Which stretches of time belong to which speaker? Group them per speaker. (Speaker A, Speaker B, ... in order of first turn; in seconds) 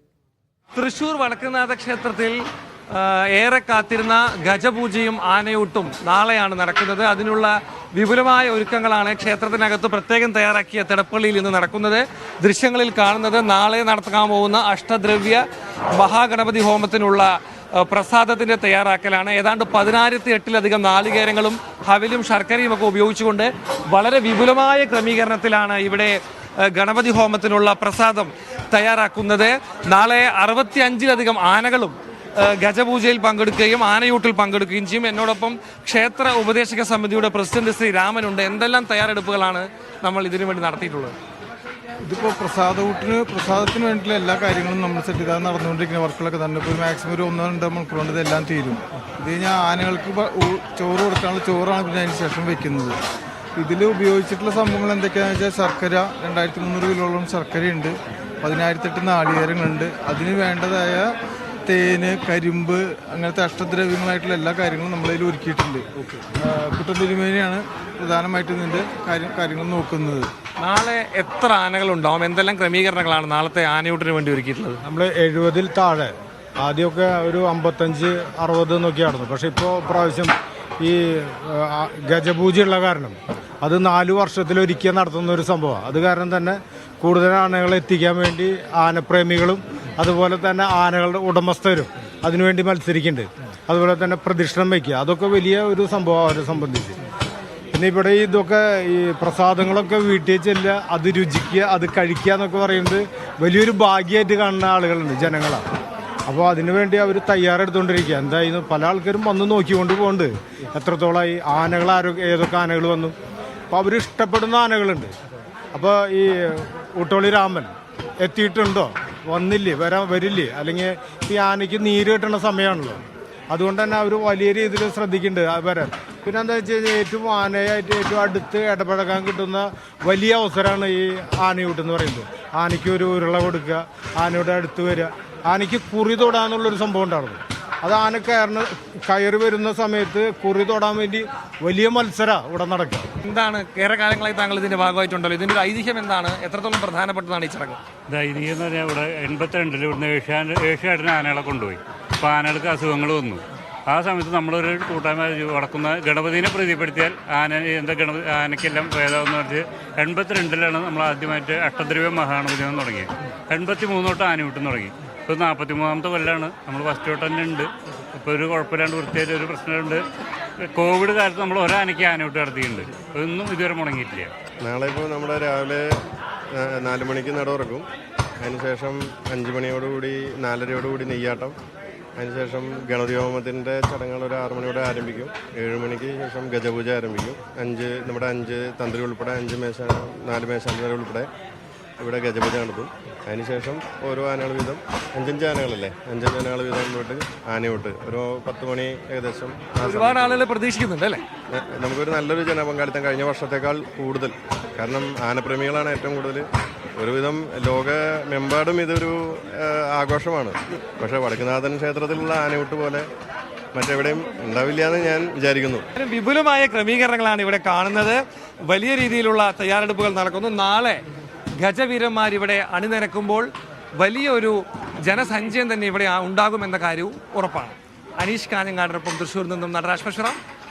Speaker A: 0.8-2.4, 2.9-15.4, 15.9-41.1, 70.6-74.8, 143.2-147.8, 199.8-201.2, 216.0-218.2, 218.7-221.0, 221.6-230.4
Speaker B: 42.1-53.0, 53.6-61.1, 61.7-65.9, 66.4-70.3
Speaker C: 74.8-97.0, 97.7-105.7, 106.3-113.2, 113.7-115.1, 115.7-143.1
Speaker D: 148.1-170.0, 170.7-174.3
Speaker E: 174.6-175.8, 176.6-177.9, 178.4-181.6, 182.2-191.3, 192.0-200.4, 201.5-213.1, 213.7-215.9